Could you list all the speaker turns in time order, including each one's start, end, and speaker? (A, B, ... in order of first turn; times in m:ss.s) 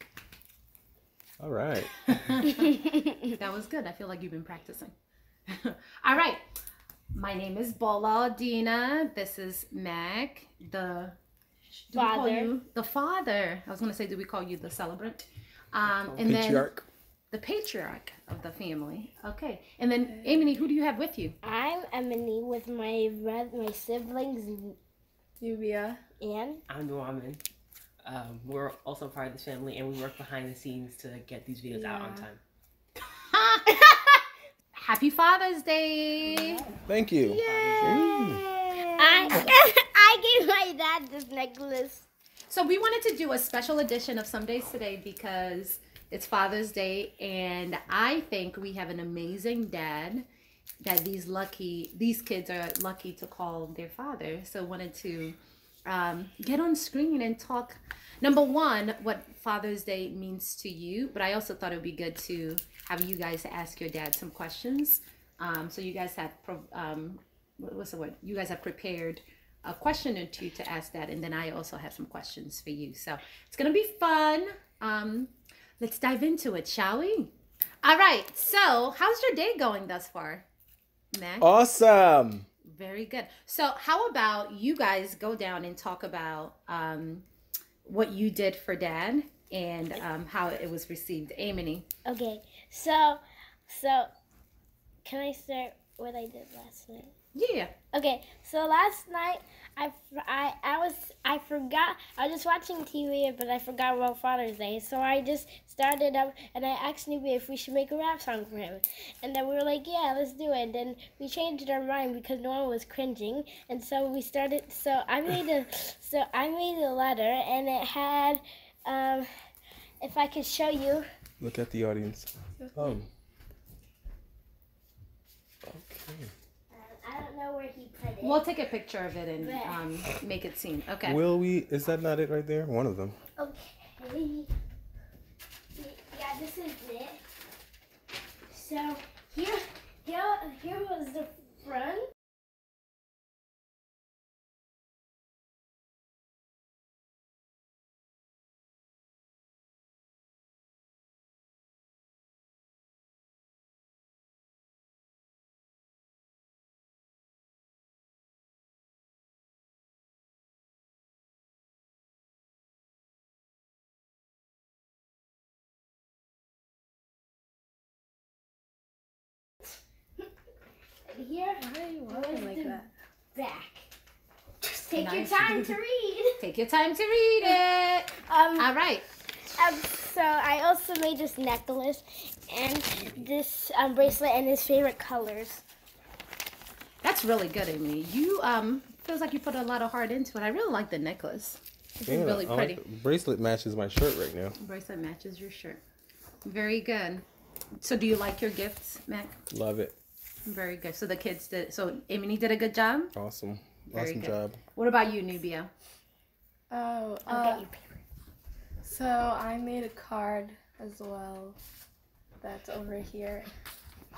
0:01.4-0:02.4 A
0:02.1-0:02.7 B
0:02.5-0:03.3 C
0:03.3-0:04.9 B
0:05.5-0:06.4 B
0:07.1-0:11.2 B
0:11.9-0:16.7 B
0:11.9-0:12.5 C
0:16.2-0:16.8 A
0:17.3-0:21.4 B
0:20.1-0:20.4 D
0:21.4-0:24.8 C
0:25.4-0:26.0 D
0:26.2-0:26.6 C
0:26.7-0:27.4 E
0:28.0-0:32.4 E
0:31.7-0:32.3 C
0:33.2-0:33.7 B
0:33.7-0:34.2 C
0:34.8-0:36.6 B
0:36.8-0:38.4 A
0:37.2-0:42.0 C
0:37.4-0:37.7 B
0:37.4-0:38.0 E
0:39.0-0:39.5 B
0:42.5-0:50.2 B
0:50.8-1:20.4 B
1:21.1-1:21.5 B
1:21.4-1:22.5 A
1:22.6-1:27.2 B
1:27.8-1:31.8 B
1:32.0-1:34.1 C
1:35.0-1:37.1 C
1:37.3-1:37.7 B
1:37.9-1:59.3 C
2:00.0-2:01.1 C
2:01.4-2:03.1 A
2:02.6-2:02.9 D
2:05.6-2:06.3 A
2:06.7-2:08.4 C
2:08.2-2:11.2 B
2:09.4-2:10.0 C
2:11.0-2:13.2 A
2:13.4-2:14.5 C
2:15.7-2:17.2 C
2:18.5-2:22.1 C
2:51.1-2:52.8 C
2:51.6-2:52.9 D
2:53.3-2:53.8 C
2:54.6-2:56.4 C
2:54.9-2:55.7 B
2:56.4-2:59.0 B
2:58.3-2:58.7 C
2:59.5-3:05.6 C
3:07.0-3:12.8 B
3:12.0-3:14.6 A
3:14.6-3:15.8 B
3:16.4-3:17.2 B
3:17.8-3:19.4 B
3:19.5-3:20.0 A
3:20.4-3:23.1 B
3:23.1-3:24.6 A
3:23.9-3:25.7 B
3:26.7-3:27.6 D
3:27.3-3:28.0 C
3:28.8-3:31.6 D
3:32.4-3:33.5 D